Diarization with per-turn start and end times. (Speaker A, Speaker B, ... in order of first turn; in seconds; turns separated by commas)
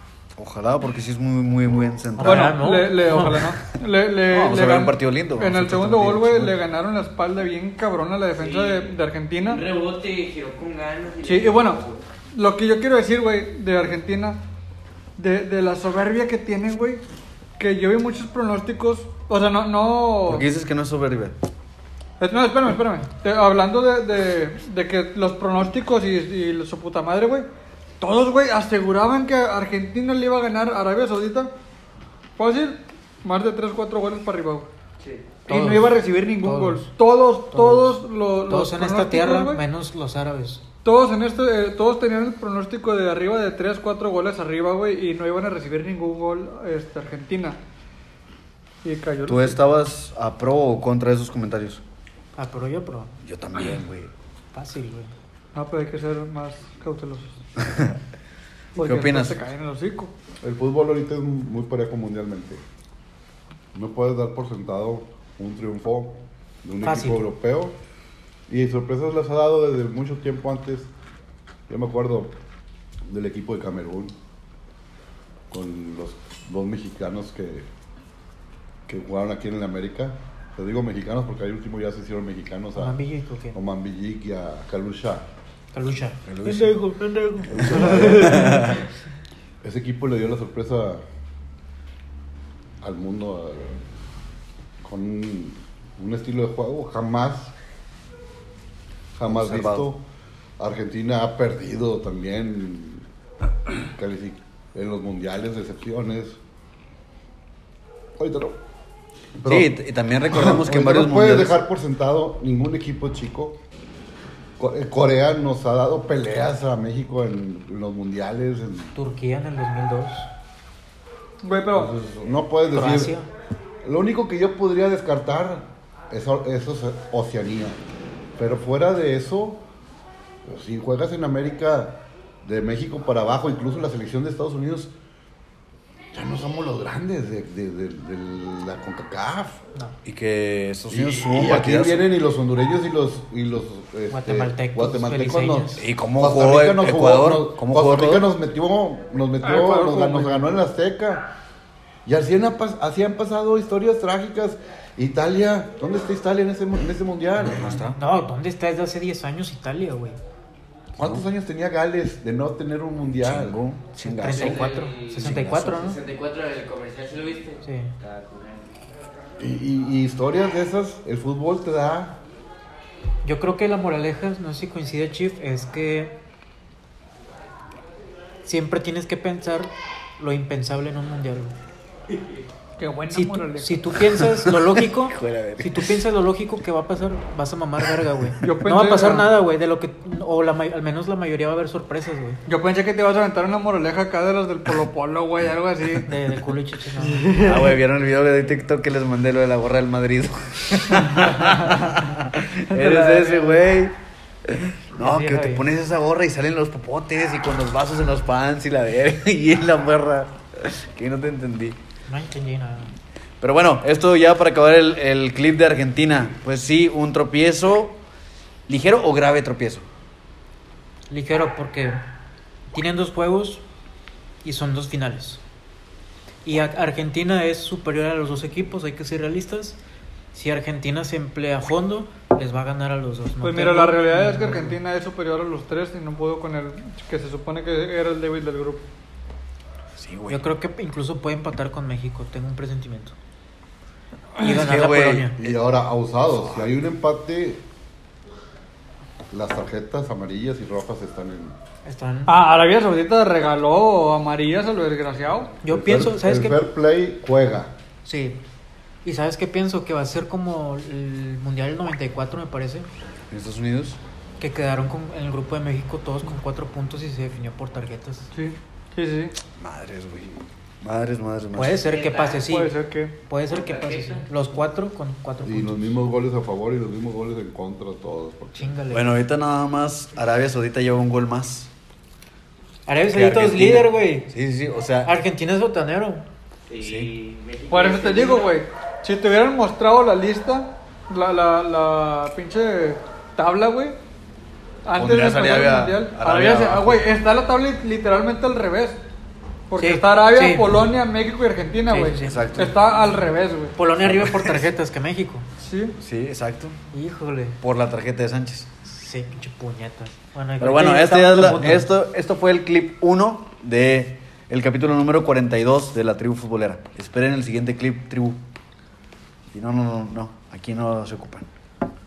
Speaker A: 0.4-2.6, Speaker B: 2.2-3.5, Speaker C: 2.2-9.7, Speaker A: 4.3-6.6, Speaker D: 8.4-12.0, Speaker C: 11.2-14.4, Speaker C: 15.2-17.0, Speaker C: 17.6-20.5, Speaker A: 20.3-21.4, Speaker C: 22.2-27.5, Speaker C: 28.0-31.5, Speaker C: 32.4-34.7, Speaker B: 35.5-36.9, Speaker C: 35.5-39.6, Speaker B: 37.5-40.6, Speaker C: 40.8-47.6, Speaker C: 48.8-49.6, Speaker A: 49.3-51.8, Speaker B: 52.4-53.1, Speaker A: 53.2-54.1, Speaker B: 54.5-55.1, Speaker C: 55.5-57.4, Speaker C: 58.8-60.1, Speaker A: 58.8-59.4, Speaker E: 60.4-62.6, Speaker E: 63.7-67.8, Speaker B: 66.8-67.2, Speaker E: 68.5-70.9, Speaker E: 71.7-72.3, Speaker E: 73.1-74.2, Speaker E: 75.5-77.7, Speaker E: 78.9-83.0, Speaker B: 82.8-83.6, Speaker E: 83.5-85.3, Speaker B: 85.7-88.9, Speaker A: 86.3-86.8, Speaker A: 87.5-88.8, Speaker E: 87.5-88.5, Speaker E: 89.6-91.0, Speaker E: 92.8-93.8, Speaker E: 94.8-97.5, Speaker E: 99.2-100.0, Speaker A: 99.4-99.9, Speaker E: 100.6-103.1, Speaker E: 103.8-106.4, Speaker E: 108.2-108.6, Speaker E: 109.4-109.7, Speaker A: 109.5-111.5, Speaker E: 110.3-113.6, Speaker E: 114.6-119.0, Speaker B: 119.0-120.3, Speaker C: 121.4-121.9, Speaker E: 121.7-123.2, Speaker B: 122.7-123.3, Speaker E: 123.8-127.8, Speaker E: 128.4-129.6, Speaker E: 130.4-134.9, Speaker E: 136.1-139.6, Speaker A: 140.1-142.0, Speaker E: 140.9-151.3, Speaker B: 144.1-145.8, Speaker A: 145.8-148.3, Speaker C: 149.4-150.5, Speaker E: 152.1-157.8, Speaker B: 157.4-160.2, Speaker A: 157.5-158.0, Speaker E: 161.0-163.6, Speaker A: 161.0-161.2, Speaker A: 163.2-165.8, Speaker B: 164.0-166.0, Speaker D: 164.3-168.7, Speaker B: 167.6-167.9, Speaker E: 169.4-172.2, Speaker B: 173.2-176.2, Speaker B: 178.4-181.6, Speaker C: 182.8-183.8, Speaker B: 183.1-192.4, Speaker A: 185.1-185.9, Speaker C: 188.4-189.3, Speaker C: 192.5-196.1, Speaker B: 196.1-197.4, Speaker C: 197.0-197.8, Speaker A: 197.4-203.9, Speaker C: 200.9-202.2, Speaker C: 202.7-203.7, Speaker A: 204.5-211.8, Speaker B: 205.0-205.7, Speaker B: 212.1-212.9, Speaker A: 213.4-218.0, Speaker A: 218.7-219.8, Speaker B: 221.1-222.0, Speaker B: 222.7-223.6, Speaker B: 224.4-225.4, Speaker B: 226.4-229.8, Speaker B: 230.3-234.8, Speaker C: 233.4-238.8, Speaker A: 240.0-240.4, Speaker B: 240.3-243.2, Speaker B: 244.4-245.4, Speaker A: 244.4-245.3, Speaker E: 245.4-247.7, Speaker A: 246.4-246.7, Speaker E: 249.3-251.6, Speaker B: 251.8-252.3, Speaker C: 252.3-255.5, Speaker B: 255.6-256.6, Speaker E: 255.7-257.8, Speaker B: 258.0-258.4, Speaker B: 259.0-262.9, Speaker A: 263.3-264.0, Speaker B: 264.4-268.3, Speaker C: 268.3-269.4, Speaker A: 269.6-271.8, Speaker B: 271.6-276.0, Speaker D: 271.8-272.4, Speaker C: 272.3-273.2, Speaker D: 273.6-274.2, Speaker E: 275.4-278.8, Speaker B: 278.6-279.2, Speaker A: 278.9-281.7, Speaker B: 282.9-284.3, Speaker A: 283.1-285.1, Speaker B: 285.0-286.2, Speaker D: 286.7-288.5, Speaker A: 286.8-287.1, Speaker C: 287.7-294.0, Speaker C: 294.9-299.0, Speaker A: 295.0-297.1, Speaker C: 299.7-303.8, Speaker B: 299.8-300.8, Speaker B: 301.9-302.4, Speaker A: 302.2-302.8, Speaker B: 303.8-305.4, Speaker A: 304.1-304.6, Speaker C: 305.6-306.0, Speaker A: 306.0-306.8, Speaker B: 306.9-307.6, Speaker A: 307.6-308.7, Speaker B: 308.8-311.9, Speaker A: 310.6-318.4, Speaker A: 319.5-321.5